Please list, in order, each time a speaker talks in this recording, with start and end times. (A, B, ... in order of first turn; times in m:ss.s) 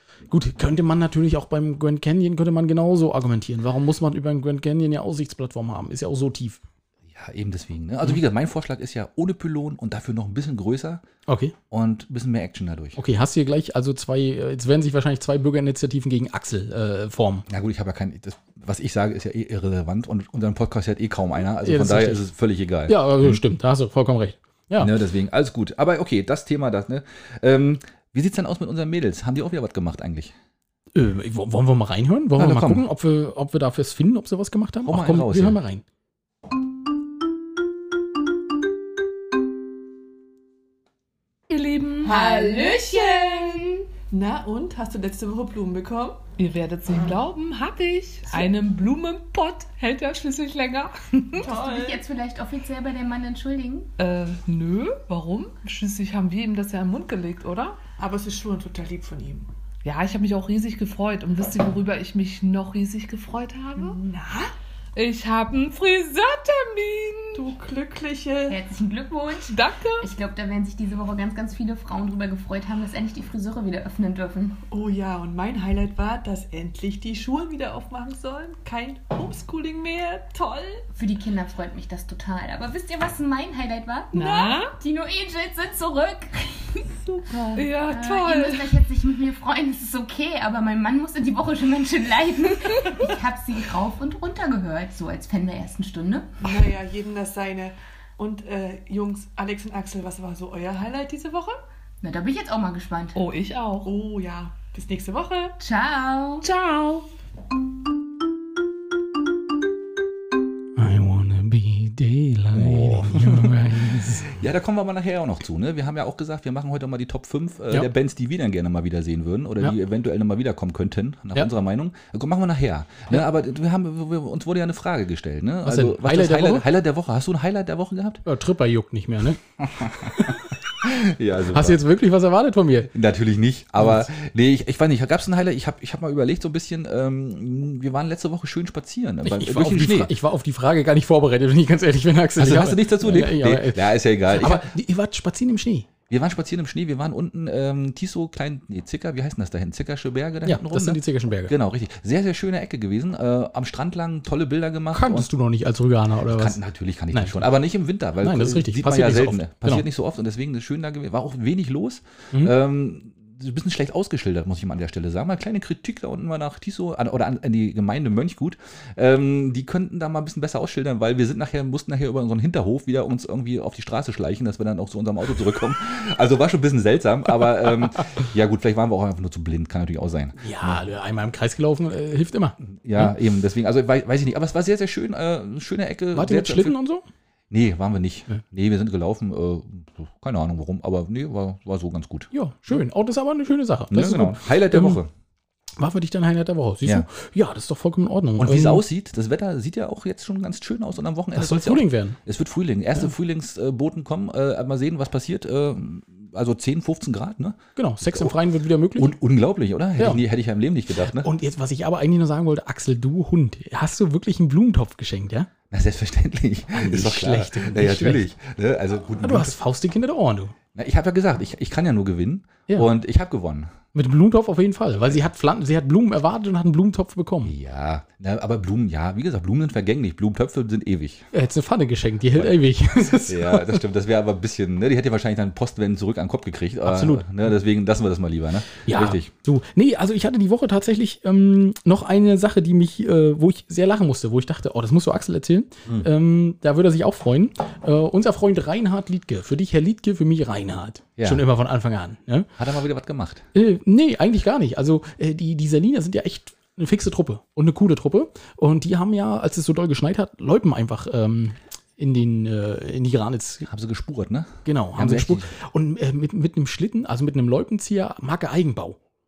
0:00.3-0:06.6 A
0:07.1-0:11.0 B
0:11.3-0:11.5 A
0:11.7-0:13.0 B
0:13.0-0:17.5 A
0:17.5-0:23.4 B
0:21.6-0:22.2 A
0:22.9-0:24.9 A
0:24.8-0:30.3 B
0:30.9-0:35.8 A
0:32.4-0:32.8 B
0:34.8-0:35.6 B
0:41.5-0:42.3 C
0:42.0-0:43.8 D
0:42.0-0:46.2 E
0:46.4-0:51.4 C
0:51.4-0:52.0 E
0:51.4-0:53.9 D
0:54.0-0:57.8 C
0:58.0-0:59.5 E
0:59.8-1:04.0 C
1:03.8-1:04.5 E
1:04.9-1:07.5 C
1:07.3-1:08.6 E
1:08.5-1:14.6 D
1:09.4-1:10.1 C
1:14.7-1:20.8 E
1:20.9-1:36.4 D
1:24.1-1:24.7 C
1:27.1-1:27.6 E
1:27.5-1:28.8 C
1:36.4-1:41.6 E
1:42.0-1:43.2 D
1:43.1-1:43.9 C
1:43.8-1:45.6 E
1:45.6-1:46.4 D
1:46.4-1:47.1 C
1:50.8-1:54.4 A
1:52.5-2:08.2 B
2:05.6-2:06.6 A
2:08.2-2:10.5 A
2:09.6-2:11.8 B
2:11.5-2:12.9 A
2:12.9-2:20.1 B
2:19.2-2:25.9 A
2:22.4-2:24.7 B
2:26.1-2:35.3 B
2:30.4-2:31.5 A
2:34.9-2:36.6 A
2:36.3-3:00.8 B
2:37.1-2:37.4 A
2:38.2-2:39.8 A
3:00.4-3:03.0 A
3:02.6-3:06.7 B
3:06.1-3:07.0 A
3:07.5-3:12.7 B
3:12.3-3:15.0 A
3:13.9-3:15.1 B
3:15.8-3:18.8 A
3:18.4-3:28.4 B
3:21.3-3:22.2 A
3:27.8-3:29.1 A
3:28.9-3:31.3 B
3:31.0-3:35.5 A
3:35.7-3:39.6 B
3:36.7-3:38.2 A
3:39.2-3:40.5 A
3:40.7-3:43.7 B
3:43.9-3:47.5 A
3:47.4-3:51.2 B
3:51.3-3:53.8 A
3:53.2-3:59.3 B
3:56.8-3:57.3 A
3:58.8-4:12.5 A
4:11.2-4:11.4 B
4:12.6-4:13.4 B
4:13.5-4:23.6 A
4:23.6-4:25.5 B
4:24.6-4:29.0 A